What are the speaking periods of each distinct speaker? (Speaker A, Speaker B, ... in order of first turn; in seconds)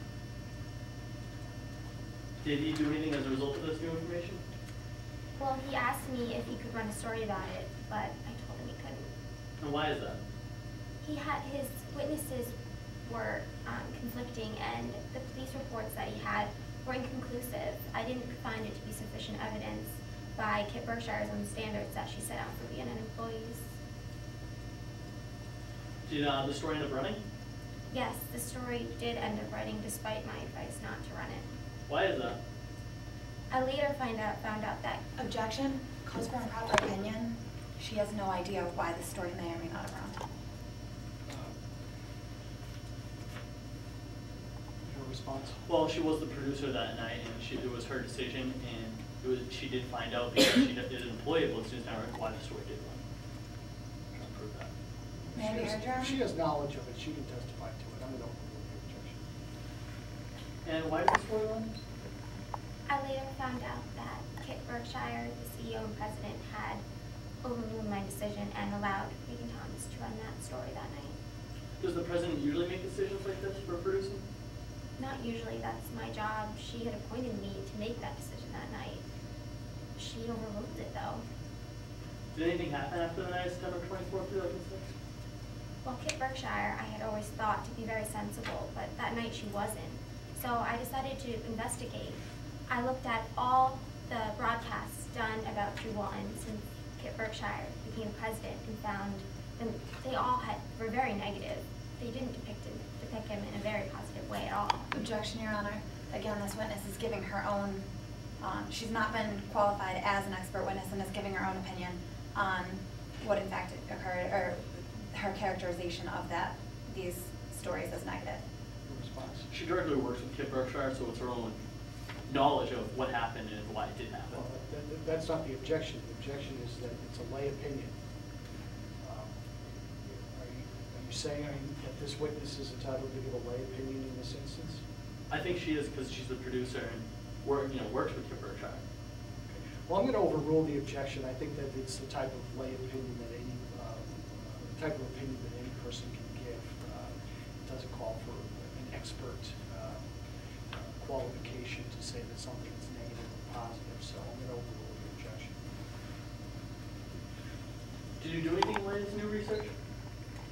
Speaker A: 2.4-4.4, 9.6-10.2, 26.1-27.2, 31.9-32.4, 45.7-53.0, 54.1-54.7, 60.6-61.7, 71.8-74.2, 82.3-84.9, 119.5-121.6, 122.3-124.4, 135.3-138.8, 158.2-159.7
Speaker B: 5.4-9.1, 11.0-12.5, 13.0-23.7, 27.9-31.5, 33.5-35.0, 62.9-66.8, 67.4-71.1, 75.0-79.0, 80.0-81.2, 85.8-104.9
Speaker C: 35.2-40.2, 55.3-56.1, 104.9-107.8, 108.4-118.4
Speaker D: 41.3-41.6, 44.9-45.6, 55.3-59.2, 118.9-119.5, 124.3-127.9, 129.0-134.8, 139.5-150.1, 150.7-155.6